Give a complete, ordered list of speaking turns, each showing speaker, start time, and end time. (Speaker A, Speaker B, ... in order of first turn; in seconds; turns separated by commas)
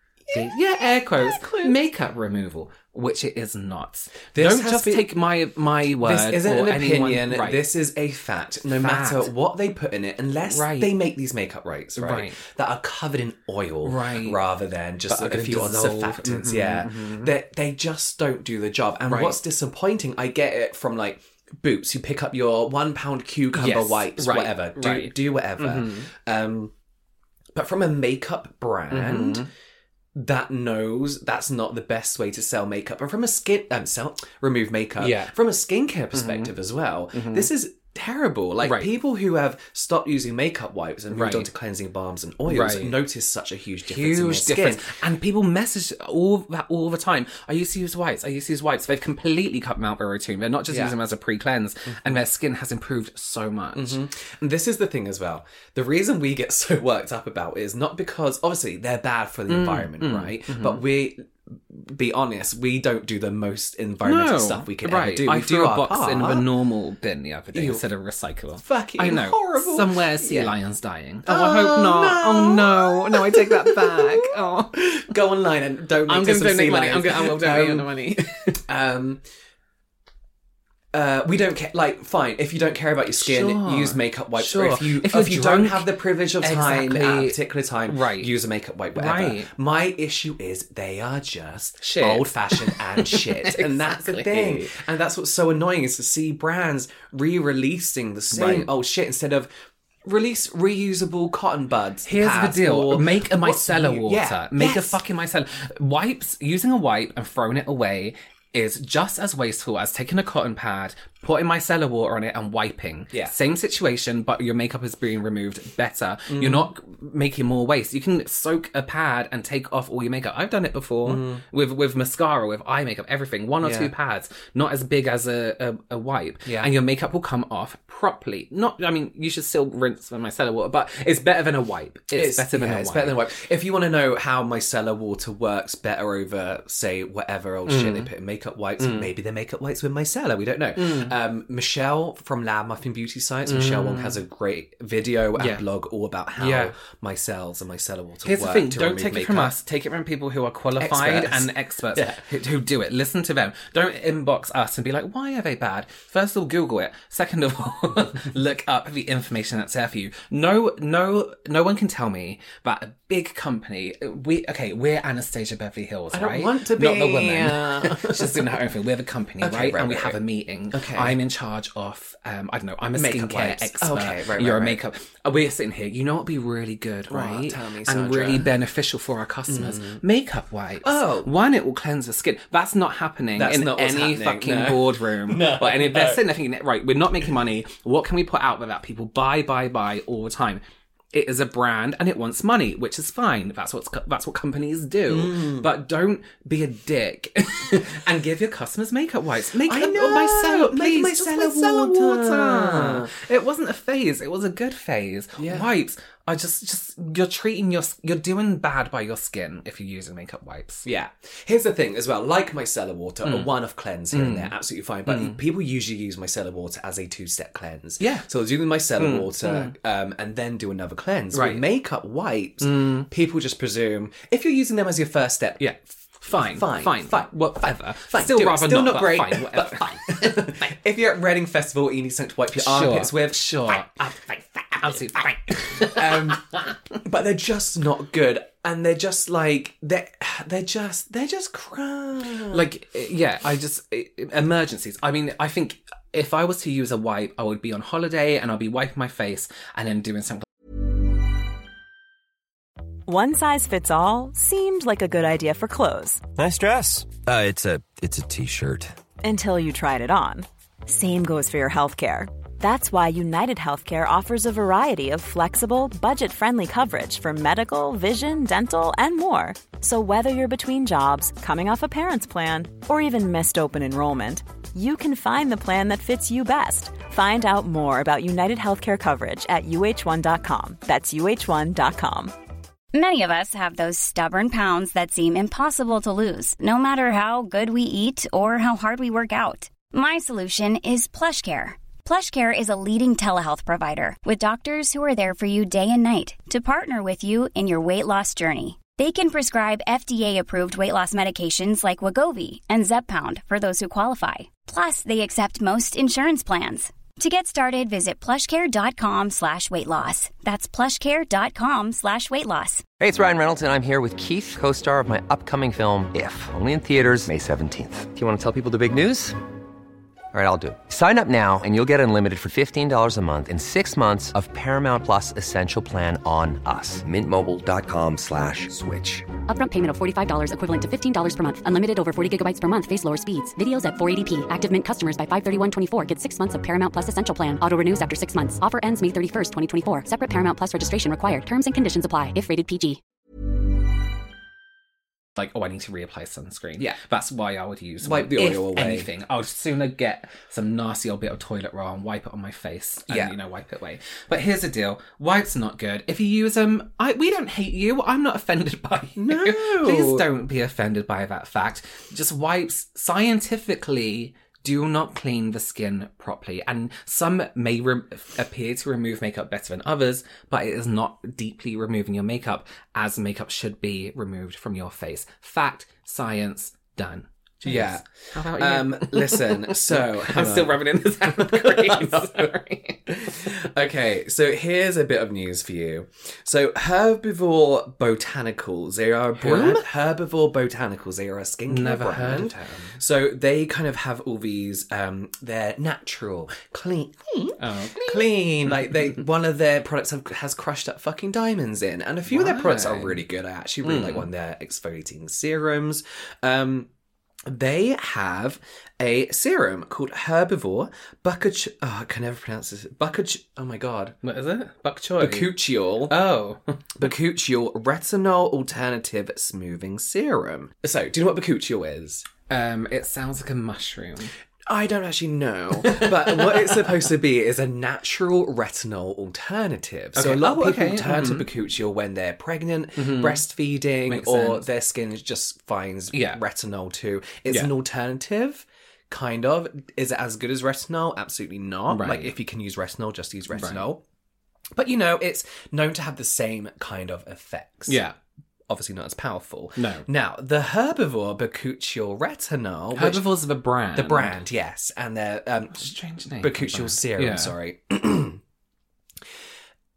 Speaker A: 0.3-0.6, Speaker B: 0.3-7.7, Speaker A: 1.2-1.8, Speaker A: 4.3-5.1, Speaker A: 6.0-26.7, Speaker B: 8.8-9.3, Speaker B: 10.4-10.9, Speaker B: 12.0-12.4, Speaker B: 13.8-14.4, Speaker B: 15.1-17.3, Speaker B: 19.0-19.4, Speaker B: 23.5-26.0, Speaker A: 27.5-29.5, Speaker B: 28.9-29.5, Speaker A: 30.1-45.0, Speaker B: 35.0-35.3, Speaker B: 36.1-36.5, Speaker B: 37.1-37.5, Speaker B: 38.6-38.9, Speaker B: 41.1-41.5, Speaker B: 42.5-43.0, Speaker B: 43.9-54.0, Speaker A: 50.7-51.0, Speaker A: 53.7-66.5, Speaker B: 59.5-60.8, Speaker B: 64.0-75.0, Speaker A: 67.5-67.8, Speaker A: 68.6-70.5, Speaker A: 71.2-78.0, Speaker B: 76.0-78.6, Speaker A: 78.7-79.2, Speaker A: 80.9-99.5, Speaker B: 83.2-88.3, Speaker B: 88.9-89.5, Speaker B: 91.8-94.8, Speaker B: 98.3-98.7, Speaker A: 100.0-105.0, Speaker B: 102.0-133.2, Speaker A: 116.3-116.7, Speaker A: 121.0-121.4, Speaker A: 123.6-123.9, Speaker A: 126.5-126.7, Speaker A: 132.1-149.6, Speaker B: 137.7-138.1, Speaker B: 138.8-139.1, Speaker B: 140.8-141.2, Speaker B: 143.5-144.2, Speaker B: 145.3-145.6, Speaker B: 146.4-146.7, Speaker B: 148.2-190.6, Speaker A: 150.8-152.4, Speaker A: 166.1-168.5, Speaker A: 169.4-170.2, Speaker A: 170.7-171.2, Speaker A: 172.9-174.8, Speaker A: 177.1-178.5, Speaker A: 179.5-180.0, Speaker A: 180.8-181.3, Speaker A: 183.4-186.3, Speaker B: 191.1-210.8, Speaker A: 195.1-195.7, Speaker A: 199.6-203.1, Speaker A: 205.4-205.7, Speaker A: 210.8-225.7, Speaker B: 213.2-213.5, Speaker B: 214.1-214.5, Speaker B: 215.1-215.4, Speaker B: 218.0-218.2, Speaker B: 219.0-219.7, Speaker B: 221.3-221.7, Speaker B: 222.6-223.1, Speaker B: 225.6-230.7, Speaker A: 226.4-233.8, Speaker B: 232.6-236.7, Speaker A: 234.8-242.7, Speaker B: 242.5-250.4, Speaker C: 253.1-256.2, Speaker D: 256.4-258.9, Speaker C: 259.2-282.3, Speaker E: 282.9-312.9, Speaker F: 313.0-319.4, Speaker F: 320.3-329.2, Speaker D: 327.9-329.2, Speaker G: 329.5-343.0, Speaker B: 345.4-383.5, Speaker A: 348.0-349.1, Speaker A: 353.1-353.4, Speaker A: 359.1-360.2, Speaker A: 377.6-382.5, Speaker A: 383.1-406.9, Speaker B: 389.4-389.9, Speaker B: 391.7-392.9, Speaker B: 397.6-399.1, Speaker B: 402.3-403.2, Speaker B: 403.8-404.3, Speaker A: 407.5-414.2, Speaker B: 414.2-415.5, Speaker A: 415.2-416.1, Speaker B: 416.1-416.7, Speaker A: 416.9-422.3, Speaker B: 422.5-424.3, Speaker A: 424.7-444.0, Speaker B: 425.8-426.9, Speaker B: 430.1-431.5, Speaker B: 433.0-433.4, Speaker B: 434.1-434.6, Speaker B: 436.1-436.4, Speaker B: 441.9-442.3, Speaker B: 443.5-443.8, Speaker A: 444.7-448.0, Speaker B: 447.9-448.1, Speaker A: 448.7-453.2, Speaker B: 449.8-450.0, Speaker B: 452.9-454.4, Speaker A: 453.9-458.4, Speaker B: 455.7-457.5